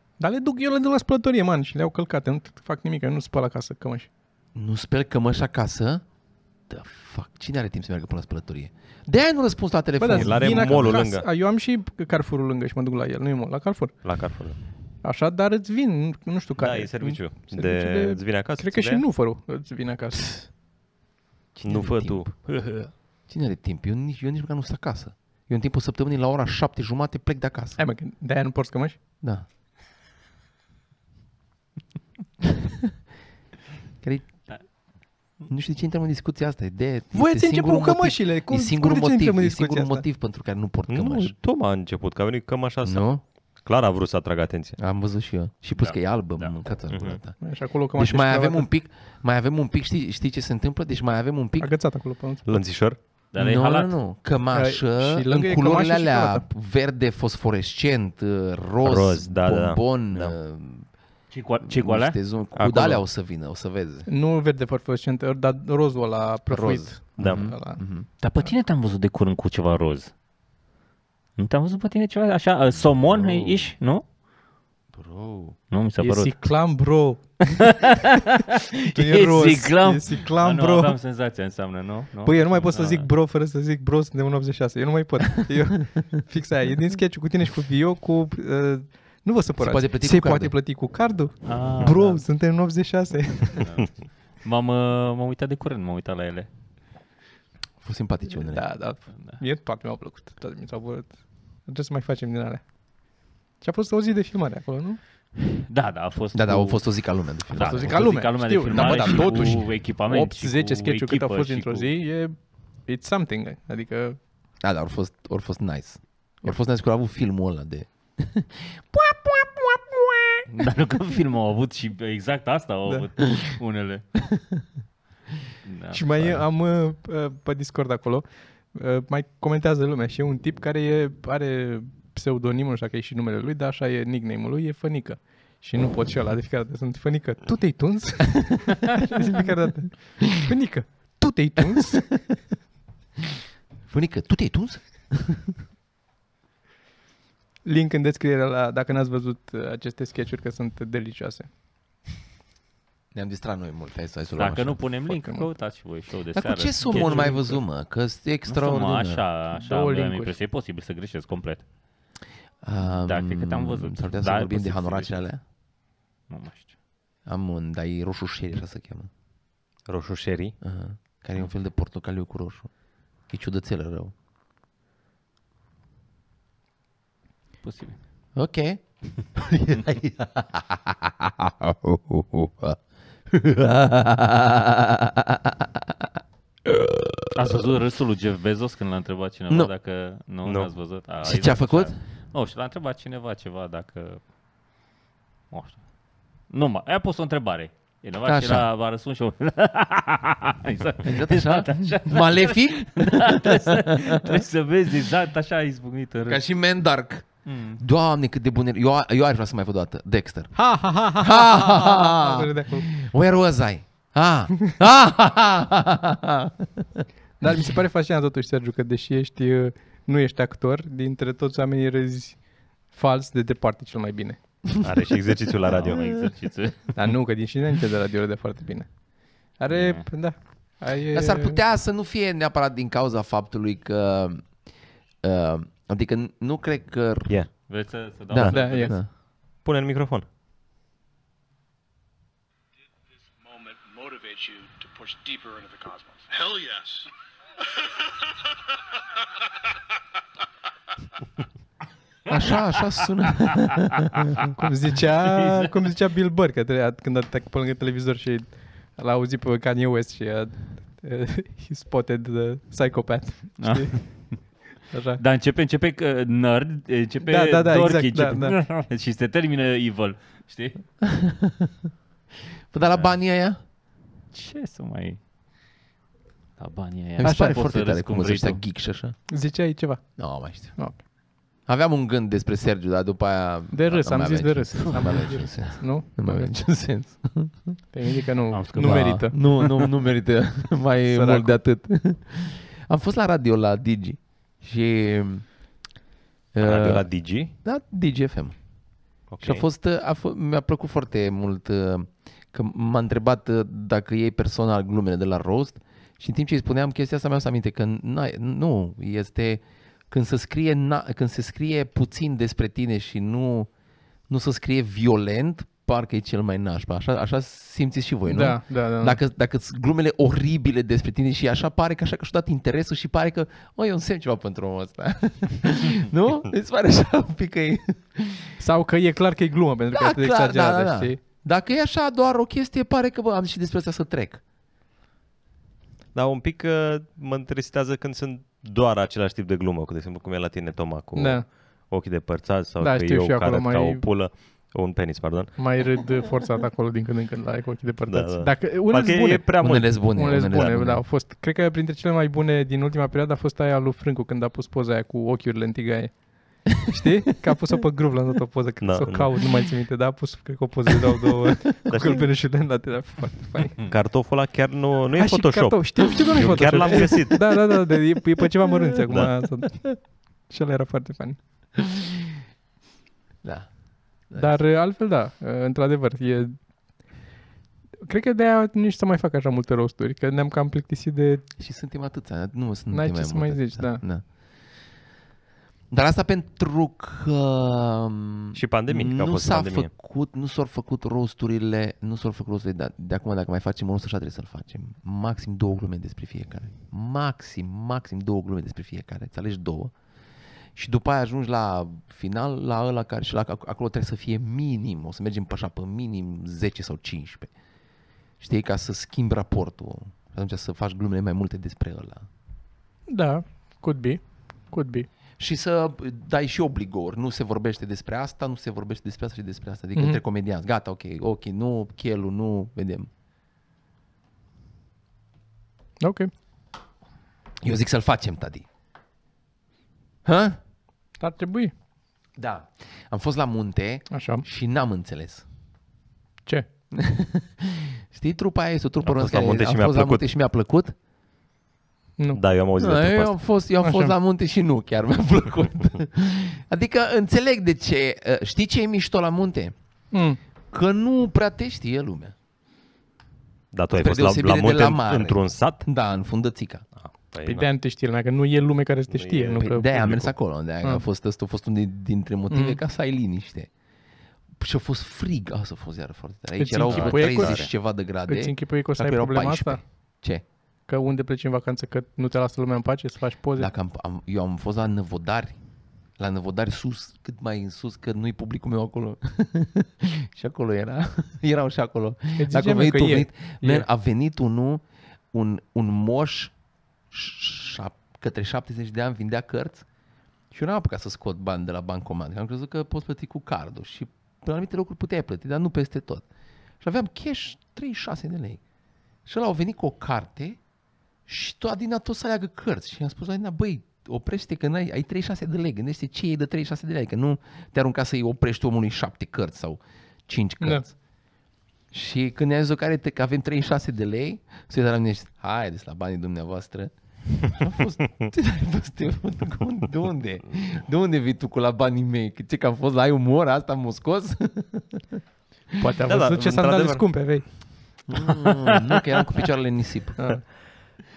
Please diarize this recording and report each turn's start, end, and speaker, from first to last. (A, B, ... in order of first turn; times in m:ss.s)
0:00.2-0:04.1 A
0:04.5-0:06.0 B
0:06.7-0:10.9 B
0:10.0-0:13.9 A
0:10.1-0:11.2 C
0:14.0-0:14.6 C
0:15.0-0:20.4 A
0:16.6-0:19.0 C
0:21.6-0:22.3 B
0:21.6-0:22.3 C
0:23.3-0:27.8 B
0:27.8-0:29.0 A
0:34.0-0:34.8 B
0:35.5-0:41.3 B
0:37.1-0:40.0 A
0:40.9-0:44.8 C
0:42.8-0:43.2 B
0:44.8-0:51.7 B
0:45.8-0:46.6 D
0:46.9-0:47.2 C
0:47.4-0:48.7 A
0:51.6-0:52.6 A
0:52.4-0:53.0 C
0:53.3-0:53.9 D
0:53.4-1:00.9 B
0:54.5-0:56.4 A
0:58.8-1:00.3 C
1:01.3-1:02.2 D
1:01.6-1:04.1 B
1:02.6-1:03.0 C
1:04.0-1:07.8 A
1:06.5-1:08.1 B
1:07.2-1:07.5 C
1:08.2-1:10.1 D
1:11.4-1:14.0 D
1:13.1-1:13.7 B
1:14.9-1:15.6 B
1:15.7-1:16.3 D
1:16.0-1:17.7 A
1:17.7-1:23.1 D
1:18.9-1:21.0 A
1:22.2-1:33.7 A
1:29.6-1:30.5 B
1:31.4-1:32.2 D
1:33.6-1:36.5 D
1:37.8-1:38.6 B
1:38.3-1:42.7 A
1:43.6-1:45.0 A
1:45.5-1:51.9 D
1:46.3-1:48.2 B
1:47.6-1:54.2 A
1:48.7-1:49.6 B
1:54.6-2:00.5 B
2:00.5-2:04.0 D
2:05.6-2:06.3 D
2:05.9-2:22.2 A
2:23.9-2:25.5 B
2:27.6-2:31.5 A
2:33.1-2:34.9 B
2:34.4-2:37.4 D
2:35.1-2:35.4 A
2:36.3-2:39.2 B
2:36.8-2:37.6 A
2:38.5-2:41.6 D
2:39.5-2:40.4 A
2:42.6-2:45.4 B
2:42.8-2:45.2 D
2:46.3-2:46.7 D
2:47.2-2:49.1 B
2:49.9-2:50.5 C
2:50.6-2:52.7 B
2:53.3-2:54.1 B
2:57.6-2:58.0 D
2:58.4-3:06.0 B
3:06.6-3:07.3 B
3:07.3-3:14.2 D
3:10.4-3:10.7 C
3:11.2-3:11.9 B
3:15.5-3:15.8 D
3:16.5-3:26.4 D
3:18.2-3:18.7 B
3:21.0-3:24.4 B
3:26.3-3:37.0 B
3:27.4-3:27.8 D
3:30.5-3:32.9 A
3:37.4-3:44.4 A
3:44.8-3:46.2 C
3:45.6-3:46.9 D
3:46.9-3:51.6 A
3:49.7-3:50.0 D
3:51.1-3:54.7 B
3:55.2-3:57.4 B
3:57.7-3:59.0 D
3:58.3-3:59.1 B
3:58.5-3:59.0 A
3:59.6-4:00.2 C
4:03.3-4:07.1 E
4:12.3-4:14.4 B
4:14.6-4:24.2 A
4:15.3-4:15.7 D
4:23.6-4:24.4 D
4:24.9-4:25.2 A
4:25.2-4:30.8 D
4:27.2-4:28.6 A
4:31.0-4:31.7 B
4:32.7-4:33.6 B
4:32.9-4:33.1 D
4:34.3-4:35.2 D
4:36.6-4:38.6 D
4:37.2-4:39.2 B
4:37.2-4:37.5 A
4:39.3-4:41.0 A
4:40.2-4:41.0 B
4:41.6-4:47.8 B
4:43.7-4:46.5 A
4:44.8-4:45.3 D
4:47.9-4:49.3 A
4:48.5-4:49.9 D
4:48.8-4:55.7 B
4:51.1-4:51.6 A
4:56.5-4:58.6 B
4:56.6-4:57.5 C
4:59.3-4:59.6 C
4:59.4-5:13.7 B
5:14.3-5:28.6 B
5:18.3-5:19.2 A
5:28.6-5:31.2 A
5:29.9-5:34.4 B
5:36.1-5:45.6 C
5:41.1-5:41.4 A
5:42.8-5:44.0 A
5:45.6-6:03.8 A
5:48.1-5:49.9 C
5:49.6-5:51.0 B
5:58.8-5:59.4 C
6:01.9-6:02.3 C
6:03.8-6:07.7 C
6:05.2-6:11.4 A
6:13.4-6:13.7 B
6:14.3-6:14.6 B
6:14.3-6:16.6 A
6:18.0-6:21.4 A
6:21.6-6:24.2 B
6:22.9-6:24.0 A
6:25.9-6:39.9 B
6:28.5-6:29.9 C
6:40.7-6:47.5 B
6:48.4-6:52.2 B
6:53.1-6:55.1 A
6:55.4-7:03.1 B
6:59.9-7:00.2 A
7:06.0-7:06.3 A
7:07.6-7:08.6 B
7:10.2-7:10.6 B
7:11.2-7:11.7 A
7:12.4-7:15.4 B
7:14.1-7:14.4 A
7:16.9-7:20.9 B
7:19.0-7:20.2 C
7:22.3-7:23.4 C
7:22.8-7:29.7 B
7:23.8-7:24.1 A
7:30.1-7:30.4 A
7:30.7-7:32.3 B
7:33.7-7:35.8 C
7:33.9-7:36.8 B
7:37.0-7:37.7 C
7:37.4-7:40.0 A
7:39.1-7:40.3 C
7:39.6-7:43.7 B
7:42.5-7:42.8 A
7:44.6-7:50.4 B
7:46.6-7:47.7 A
7:46.9-7:47.7 C
7:48.2-7:49.8 A
7:50.9-7:53.7 A
7:53.6-7:55.6 B
7:56.2-8:06.5 B
8:02.4-8:03.8 A
8:07.1-8:09.8 B
8:10.5-8:16.2 B
8:16.8-8:18.6 B
8:19.2-8:20.6 B
8:21.2-8:31.0 B
8:30.6-8:30.8 A
8:31.9-8:45.0 B
8:45.8-8:47.4 A
8:46.1-8:47.3 C
8:48.1-8:50.2 B
8:50.2-8:50.4 A